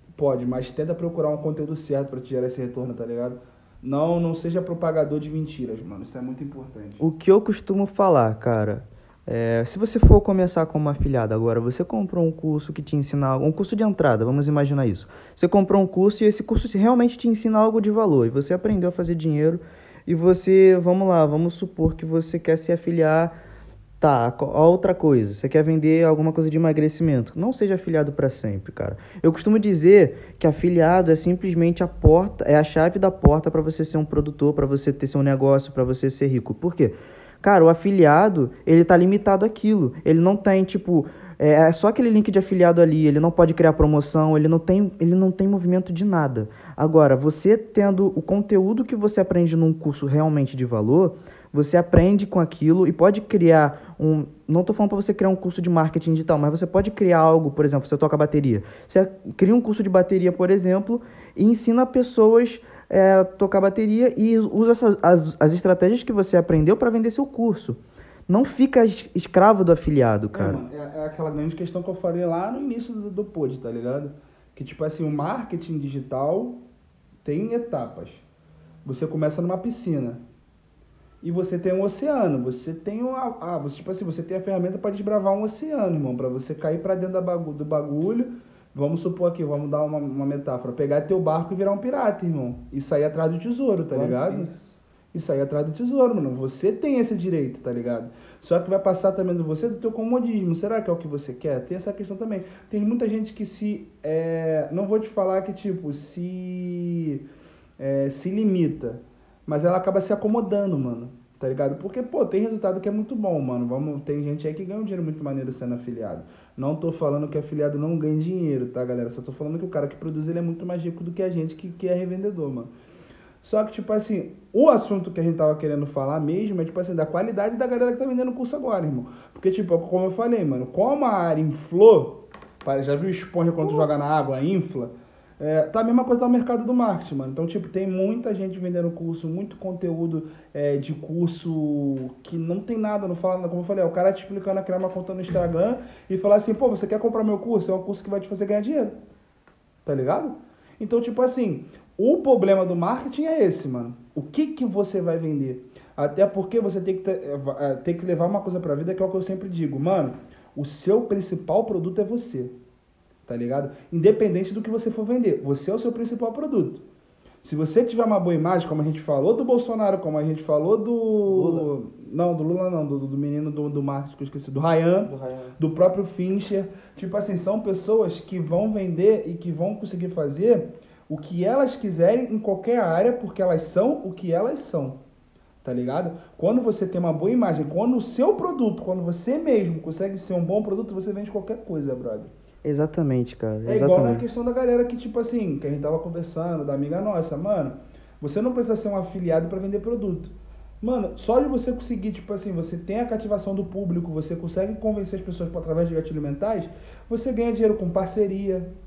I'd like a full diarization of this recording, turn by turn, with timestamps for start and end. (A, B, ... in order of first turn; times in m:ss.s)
0:00.1-0:07.0 A
0:07.0-0:23.3 B
0:24.0-1:10.6 B
1:10.3-1:16.6 A
1:17.2-1:18.2 A
1:18.8-1:20.2 A
1:21.2-1:34.5 A
1:33.9-1:34.7 B
1:35.1-1:47.2 A
1:47.8-2:02.7 A
2:03.4-2:29.0 A
2:29.8-2:42.5 A
2:43.3-2:46.8 A
2:47.4-3:05.0 A
2:51.3-2:51.7 B
2:55.1-2:55.6 B
3:05.6-3:12.3 A
3:12.6-3:14.2 B
3:13.7-3:28.7 A